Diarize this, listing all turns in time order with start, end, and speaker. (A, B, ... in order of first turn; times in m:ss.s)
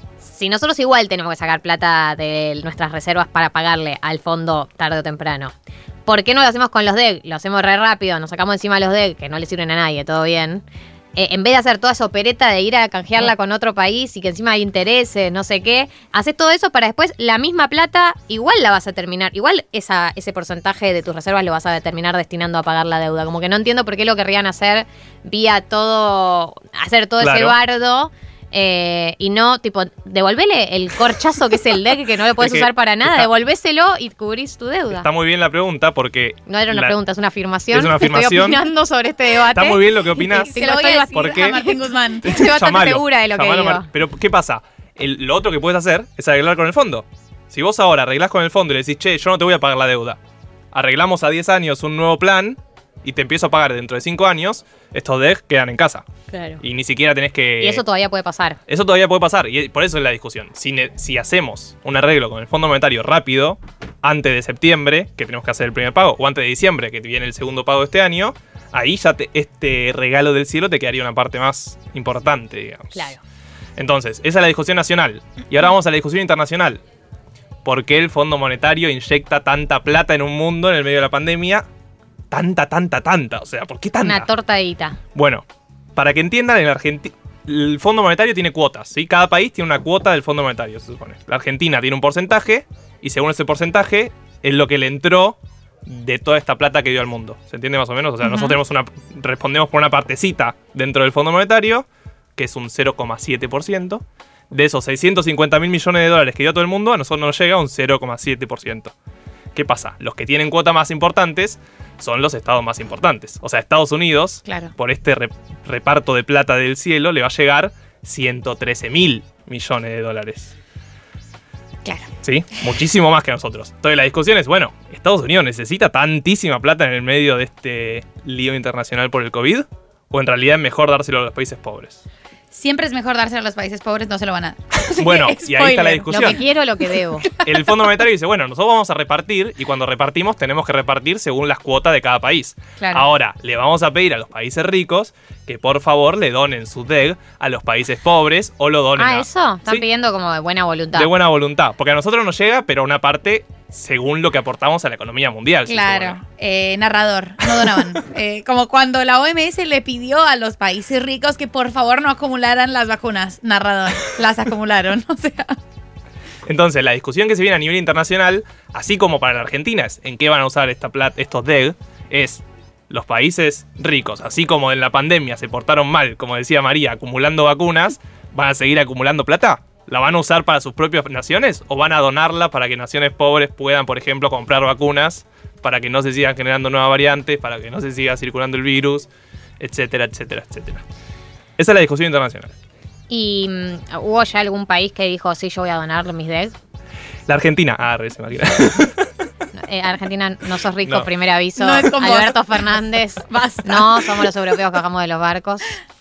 0:00.2-0:05.5 A
0:06.1-0:35.1 A
0:27.2-0:27.6 B
0:32.4-0:33.3 B
0:34.9-0:37.0 B
0:36.5-0:43.9 A
0:37.7-0:38.6 B
0:39.5-0:41.6 B
0:40.2-0:42.5 C
0:42.2-0:50.2 B
0:50.7-0:56.1 B
0:56.3-0:56.6 A
0:56.6-0:57.8 B
0:57.6-0:58.6 A
0:58.7-1:13.1 B
1:12.9-1:13.2 A
1:13.8-1:16.8 B
1:17.6-1:21.6 B
1:22.3-1:24.3 B
1:24.0-1:25.0 A
1:25.1-1:48.9 B
1:49.6-2:00.6 B
1:54.4-1:54.7 C
2:01.8-2:02.1 C
2:02.2-2:12.0 B
2:12.5-2:17.5 C
2:15.0-2:16.4 B
2:16.1-2:17.2 A
2:17.4-2:29.9 B
2:22.8-2:23.1 C
2:29.0-2:31.1 A
2:30.9-2:36.2 B
2:35.7-2:45.6 C
2:37.4-2:37.7 B
2:46.4-3:09.1 B
3:09.6-3:10.8 B
3:11.6-3:12.5 B
3:13.1-3:16.6 A
3:17.3-3:19.0 B
3:19.5-3:25.7 A
3:21.6-3:24.6 C